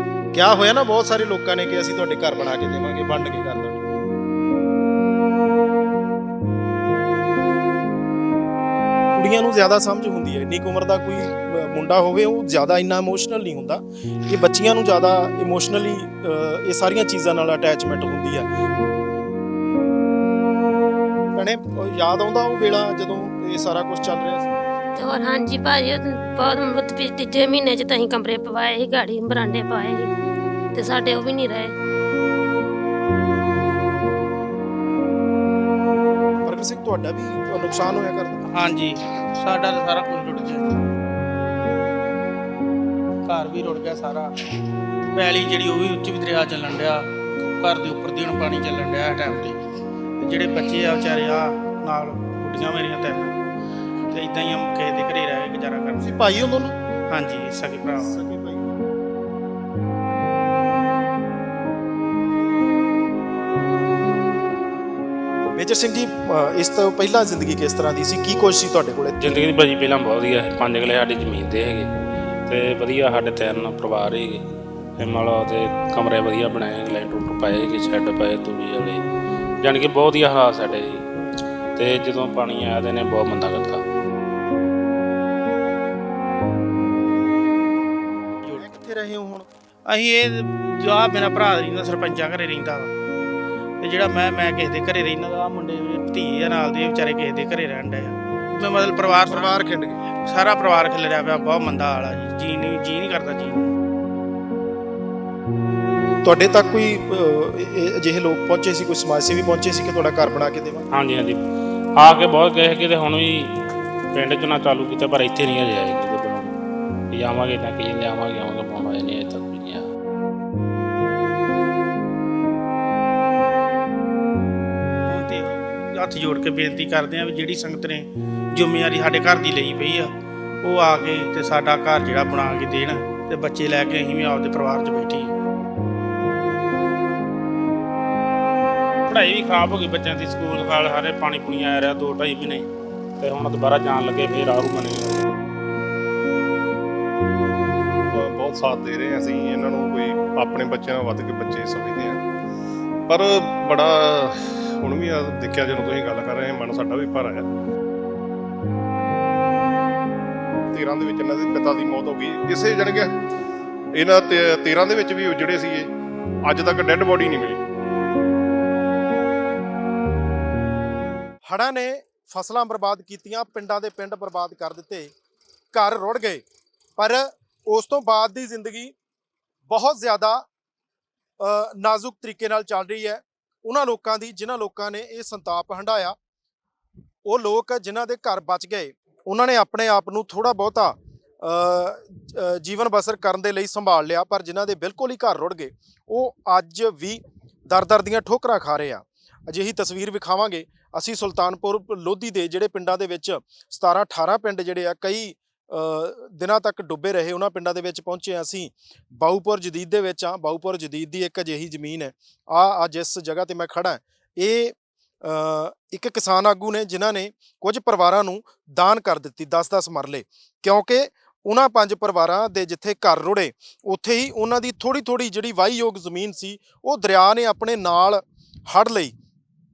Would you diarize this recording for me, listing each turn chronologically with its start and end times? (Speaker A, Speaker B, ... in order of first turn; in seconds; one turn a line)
Speaker A: 0.3-3.8
Speaker A: 9.2-18.5
Speaker A: 21.4-24.5
Speaker B: 25.0-30.1
Speaker B: 30.7-31.7
Speaker A: 36.5-38.4
Speaker C: 38.5-40.8
Speaker C: 43.3-44.3
Speaker C: 45.1-49.6
Speaker C: 50.2-53.4
Speaker C: 54.1-56.2
Speaker A: 56.0-56.8
Speaker C: 57.1-58.2
Speaker A: 58.0-58.7
Speaker A: 65.6-69.2
Speaker D: 69.2-71.9
Speaker D: 72.5-74.4
Speaker D: 75.0-79.0
Speaker D: 79.6-81.0
Speaker D: 81.8-83.8
Speaker A: 88.6-89.5
Speaker C: 89.9-92.9
Speaker C: 93.8-99.7
Speaker A: 99.1-100.0
Speaker C: 100.2-103.7
Speaker A: 106.2-110.9
Speaker D: 110.9-111.4
Speaker D: 112.0-113.5
Speaker D: 114.1-116.5
Speaker D: 117.1-119.9
Speaker C: 125.1-130.1
Speaker C: 130.6-135.3
Speaker D: 139.1-142.7
Speaker D: 143.2-145.3
Speaker E: 148.1-152.2
Speaker E: 153.1-157.5
Speaker E: 160.7-163.1
Speaker E: 164.0-165.9
Speaker E: 166.4-167.6
Speaker A: 171.5-175.1
Speaker A: 175.7-176.4
Speaker A: 177.0-178.9
Speaker A: 179.7-180.4
Speaker A: 181.4-186.2
Speaker A: 187.3-229.1